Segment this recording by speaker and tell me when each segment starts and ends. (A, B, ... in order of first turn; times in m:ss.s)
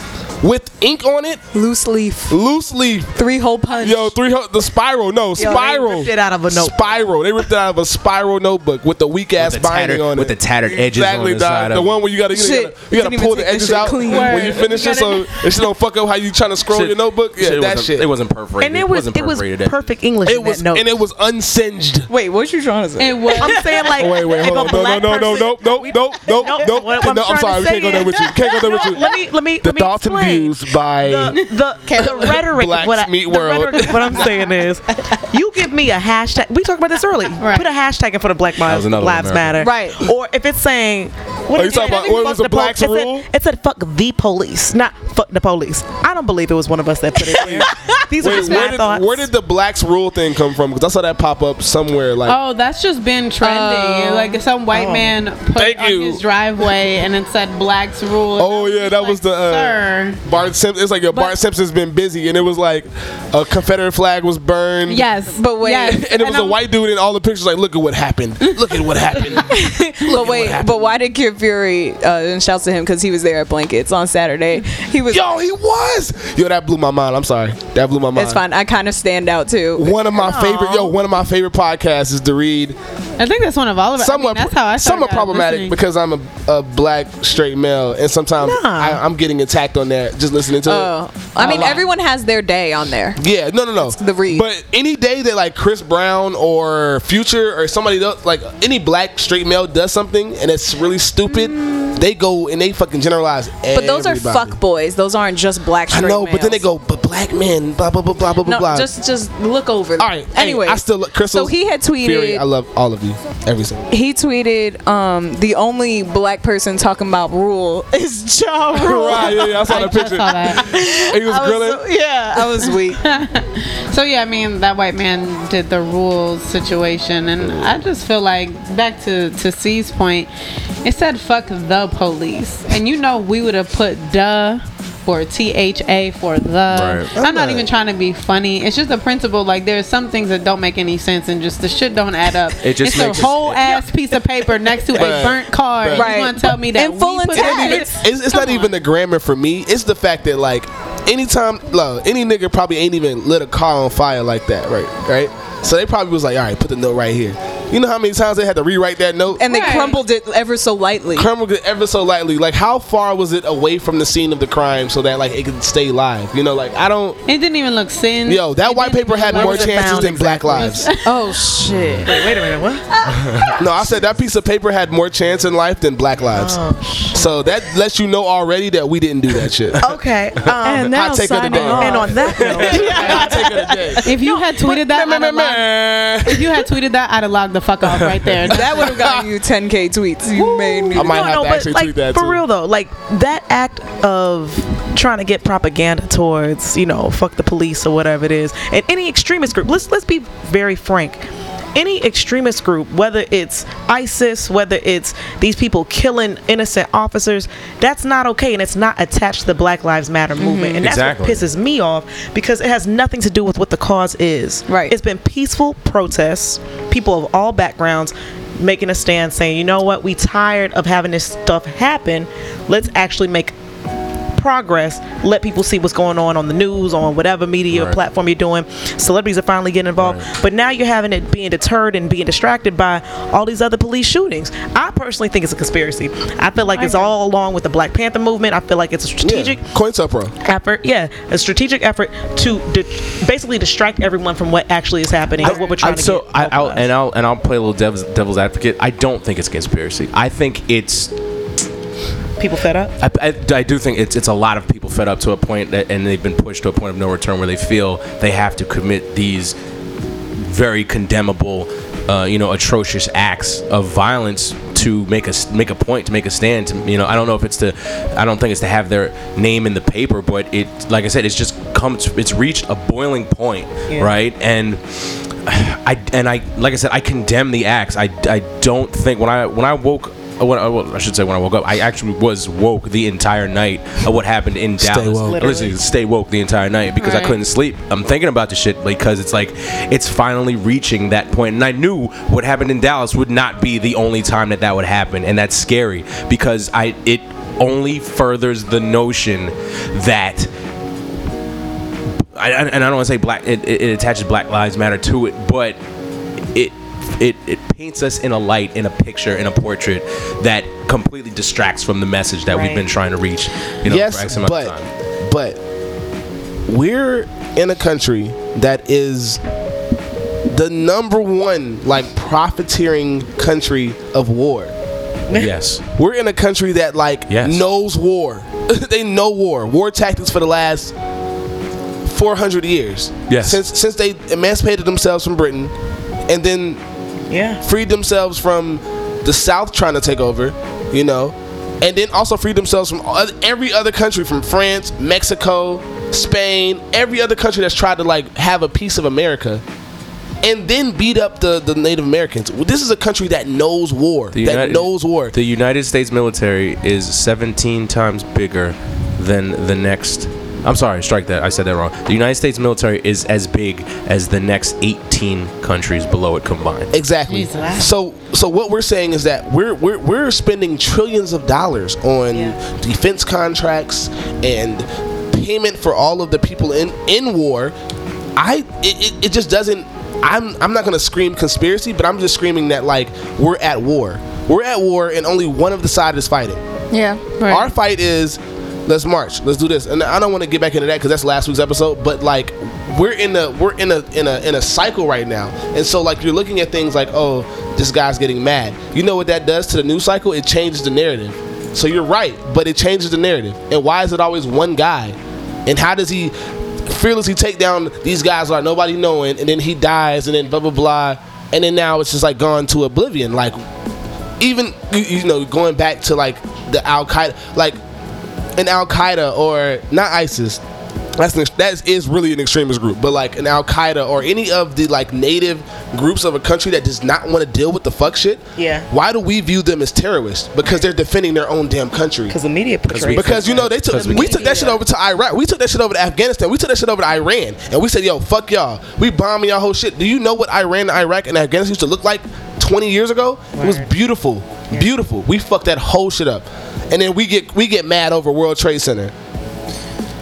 0:00.4-0:01.4 A
0:01.5-0:02.4 B
0:02.3-0:03.2 A
0:03.2-0:04.2 B
0:03.8-0:18.1 A
0:05.4-0:05.6 B
0:05.4-0:07.0 C
0:09.4-0:12.0 D
0:12.3-0:15.2 B
0:14.0-0:15.3 E
0:16.7-0:19.9 D
0:18.6-0:21.0 C
0:20.2-0:22.1 A
0:22.1-0:23.7 B
0:23.0-0:23.9 E
0:23.4-0:49.3 C
0:24.0-0:34.4 A
0:37.4-0:37.7 E
0:38.6-0:39.7 D
0:39.6-0:40.0 B
0:41.6-0:43.3 A
0:41.7-0:42.2 E
0:47.4-0:47.7 A
0:48.2-0:52.4 A
0:48.3-0:48.7 E
0:52.2-1:00.2 E
0:53.4-0:54.4 B
0:54.7-0:55.1 C
0:55.5-0:56.2 A
0:58.4-1:05.1 A
1:04.9-1:06.6 E
1:05.3-1:06.0 B
1:05.9-1:10.9 A
1:08.4-1:09.0 E
1:09.3-1:15.3 B
1:15.1-1:18.4 A
1:18.2-1:20.6 B
1:19.8-1:22.8 A
1:20.2-1:20.8 C
1:23.2-1:25.8 E
1:24.0-1:31.8 A
1:28.4-1:29.0 C
1:30.6-1:33.2 B
1:33.2-1:44.6 A
1:33.8-1:34.5 B
1:41.3-1:42.0 B
1:43.7-1:46.6 B
1:45.9-1:48.9 A
1:48.4-1:52.4 B
1:50.0-1:53.9 A
1:53.9-2:03.0 B
1:58.7-2:01.8 A
1:59.2-2:00.6 E
2:02.6-2:10.3 E
2:07.4-2:07.7 D
2:10.8-2:28.6 E
2:16.7-2:17.1 D
2:17.2-2:17.7 A
2:22.6-2:23.9 D
2:24.9-2:26.1 A
2:25.9-2:28.4 B
2:27.3-2:39.4 A
2:39.4-2:41.3 B
2:39.5-2:40.0 E
2:41.2-2:47.2 A
2:47.3-2:51.1 E
2:48.2-2:50.9 A
2:49.3-2:50.7 C
2:51.0-2:53.6 B
2:52.0-2:52.9 C
2:53.6-2:56.6 A
2:56.3-2:57.3 C
2:57.1-2:59.9 A
2:59.8-3:04.7 C
3:00.6-3:03.5 B
3:00.8-3:04.1 A
3:04.0-3:05.7 E
3:04.7-3:06.6 A
3:06.2-3:09.0 E
3:08.5-3:11.2 B
3:08.7-3:09.2 A
3:10.3-3:43.6 C
3:11.0-3:12.4 A
3:30.4-3:30.8 B
3:30.8-3:31.4 D
3:34.7-3:34.9 B
3:44.4-3:59.6 C
3:47.7-3:48.0 D
3:50.0-3:50.3 D
3:59.2-4:00.3 A
4:00.4-4:06.9 C
4:05.4-4:11.1 D
4:12.4-4:13.0 C
4:13.0-4:19.6 D
4:20.4-5:00.5 D
4:44.8-4:45.4 A
4:45.3-4:45.8 C
4:47.0-4:47.4 E
5:02.4-5:05.8 D
5:06.5-5:14.9 D
5:12.5-5:12.8 C
5:13.9-5:15.6 A
5:16.7-5:19.4 A
5:20.5-5:24.7 A
5:25.3-5:25.8 D
5:26.0-5:30.9 A
5:27.3-5:27.6 D
5:32.1-5:35.7 A
5:33.3-5:33.6 D
5:36.3-5:36.8 A
5:37.3-5:37.6 C
5:37.6-5:49.6 A
5:50.4-5:55.3 A
5:54.3-6:06.9 D
6:06.9-6:17.7 A
6:07.3-6:07.8 E
6:07.5-6:07.9 C
6:18.4-6:26.6 A
6:26.9-6:27.2 B
6:27.4-6:27.8 E
6:27.5-6:46.3 A
6:46.9-6:53.6 A
6:54.4-6:57.8 A
6:58.6-7:00.6 A
7:01.2-7:12.4 A
7:08.6-7:08.9 C
7:12.3-7:14.8 C
7:12.9-7:14.4 D
7:13.1-7:29.1 A
7:23.6-7:23.9 C